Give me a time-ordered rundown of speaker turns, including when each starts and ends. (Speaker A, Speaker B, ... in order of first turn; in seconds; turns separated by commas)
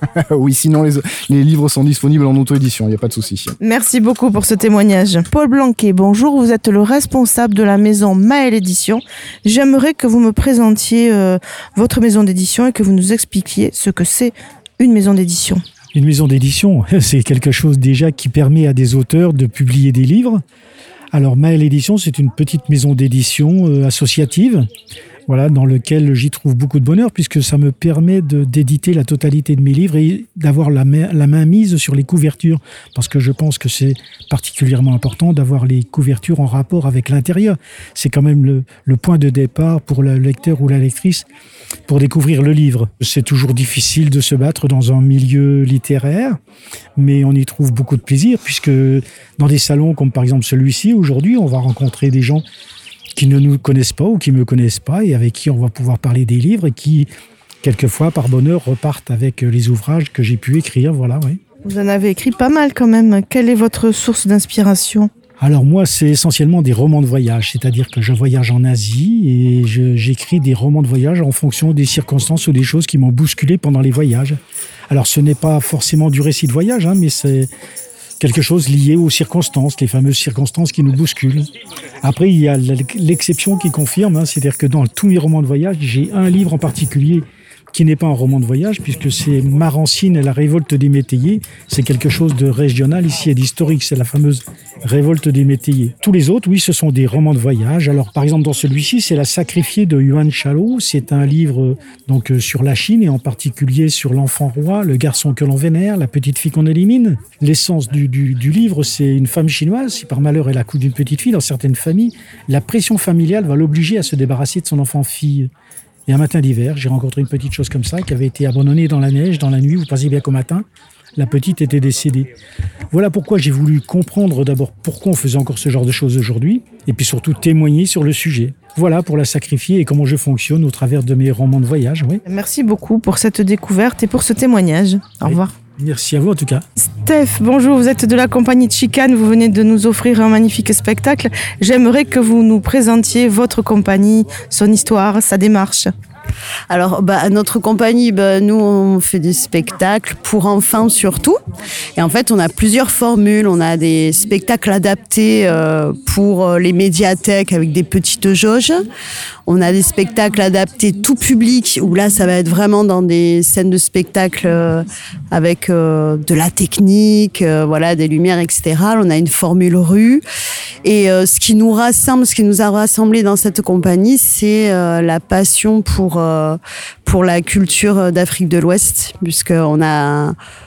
Speaker A: 0.3-3.5, Speaker B: 3.6-15.6, Speaker C: 15.9-20.4, Speaker C: 21.1-24.7, Speaker C: 25.3-41.2, Speaker C: 41.9-46.4, Speaker C: 47.0-52.4, Speaker C: 53.1-57.1, Speaker C: 57.6-61.4, Speaker B: 61.6-65.1, Speaker C: 65.4-74.4, Speaker C: 74.9-77.5, Speaker C: 78.2-81.5, Speaker C: 82.0-115.5, Speaker C: 116.1-120.6, Speaker C: 121.2-122.3, Speaker C: 122.9-132.2, Speaker B: 132.2-135.5, Speaker C: 135.2-136.6, Speaker B: 136.8-145.9, Speaker D: 146.7-151.4, Speaker D: 152.0-158.8, Speaker D: 159.4-170.2, Speaker D: 170.8-180.3